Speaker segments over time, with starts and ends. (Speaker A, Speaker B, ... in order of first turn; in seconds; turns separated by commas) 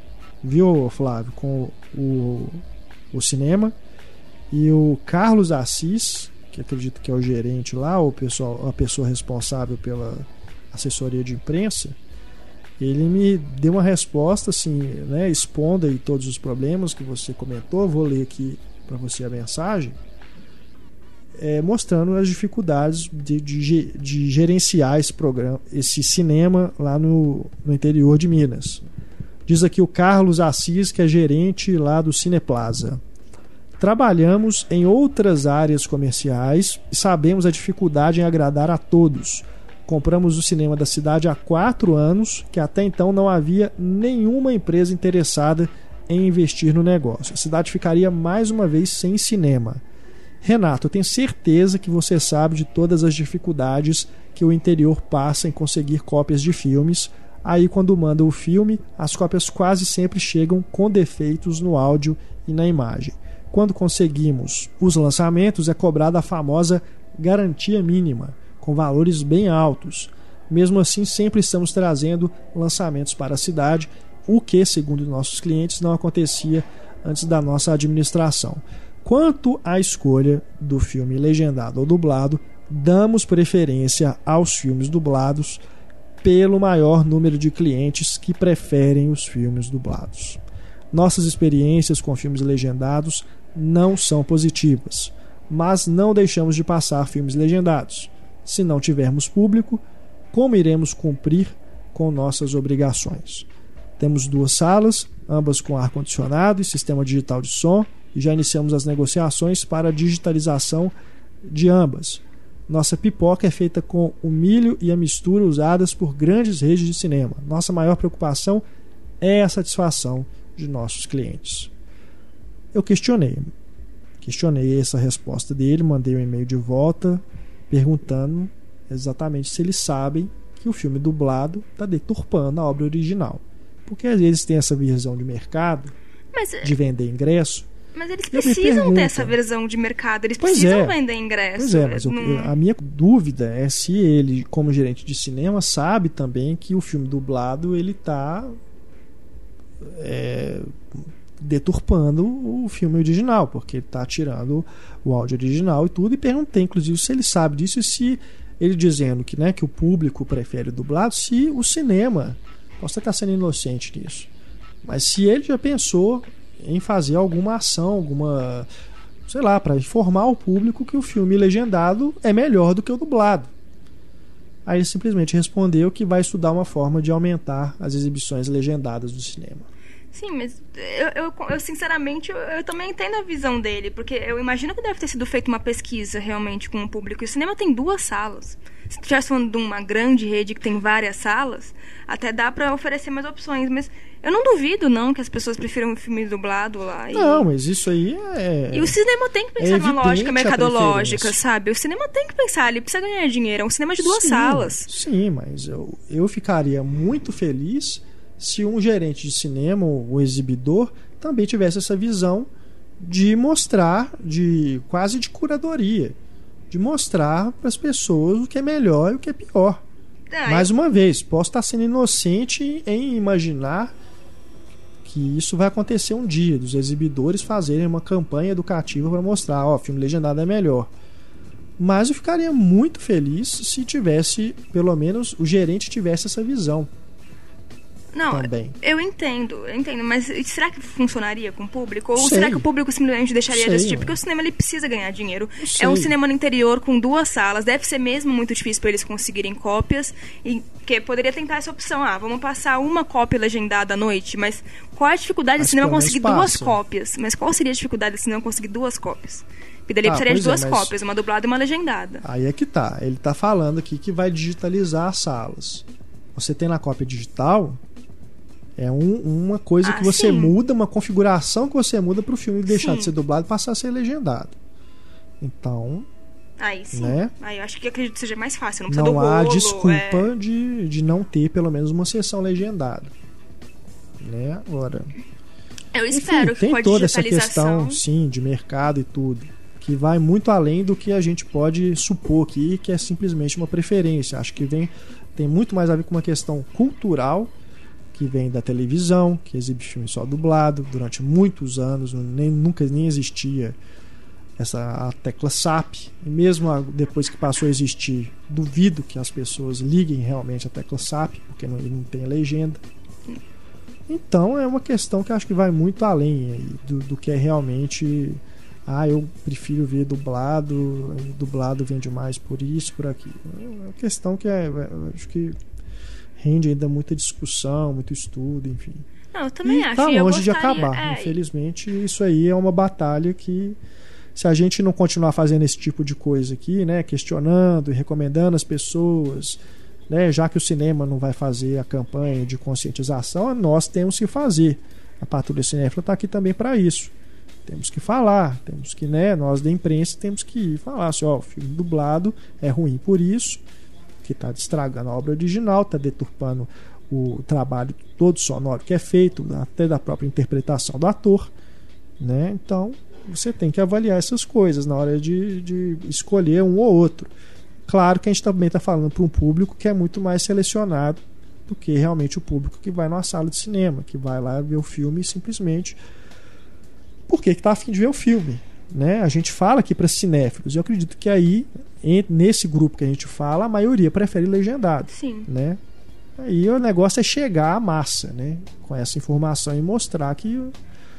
Speaker A: 0.4-3.8, Speaker A: 4.5-12.0, Speaker A: 12.8-20.0, Speaker A: 21.4-28.8, Speaker A: 29.4-33.0, Speaker A: 33.8-49.8, Speaker A: 50.4-85.6, Speaker A: 86.2-90.4, Speaker A: 90.9-103.5, Speaker A: 104.0-118.6, Speaker A: 119.2-121.7, Speaker A: 122.7-123.5, Speaker A: 124.2-135.9, Speaker B: 136.3-136.7, Speaker A: 136.6-137.7, Speaker B: 137.9-142.5, Speaker A: 138.3-139.3, Speaker A: 140.4-141.0, Speaker A: 141.6-148.6, Speaker A: 149.8-150.7, Speaker A: 151.4-164.3, Speaker A: 164.8-168.7, Speaker A: 169.3-173.5, Speaker A: 174.6-179.7, Speaker B: 180.1-197.5, Speaker A: 197.1-198.9, Speaker B: 198.7-204.9, Speaker A: 199.6-201.4, Speaker A: 204.0-216.2, Speaker A: 216.7-219.8, Speaker B: 220.3-220.7, Speaker A: 220.4-223.9, Speaker A: 225.0-230.9, Speaker A: 231.8-236.9, Speaker B: 238.1-262.2, Speaker A: 238.3-238.8, Speaker A: 242.2-242.6, Speaker A: 243.5-244.2, Speaker A: 245.6-246.1, Speaker A: 255.6-256.8, Speaker A: 260.0-260.9, Speaker A: 262.2-267.8, Speaker A: 268.8-274.6, Speaker B: 269.8-270.5, Speaker B: 272.7-273.1, Speaker A: 275.4-276.1, Speaker B: 276.6-280.3, Speaker A: 276.9-277.3, Speaker A: 278.9-283.1, Speaker A: 284.2-285.1, Speaker B: 285.9-288.0, Speaker A: 286.1-297.5, Speaker A: 298.1-303.8, Speaker A: 304.6-312.8, Speaker A: 314.1-325.6, Speaker A: 326.4-329.1, Speaker B: 329.3-331.4, Speaker A: 329.6-333.8, Speaker A: 334.3-347.1, Speaker A: 347.6-353.6, Speaker A: 354.2-361.5, Speaker A: 362.2-367.3, Speaker A: 367.9-376.0, Speaker A: 377.3-385.8, Speaker B: 385.1-385.5, Speaker A: 386.4-390.7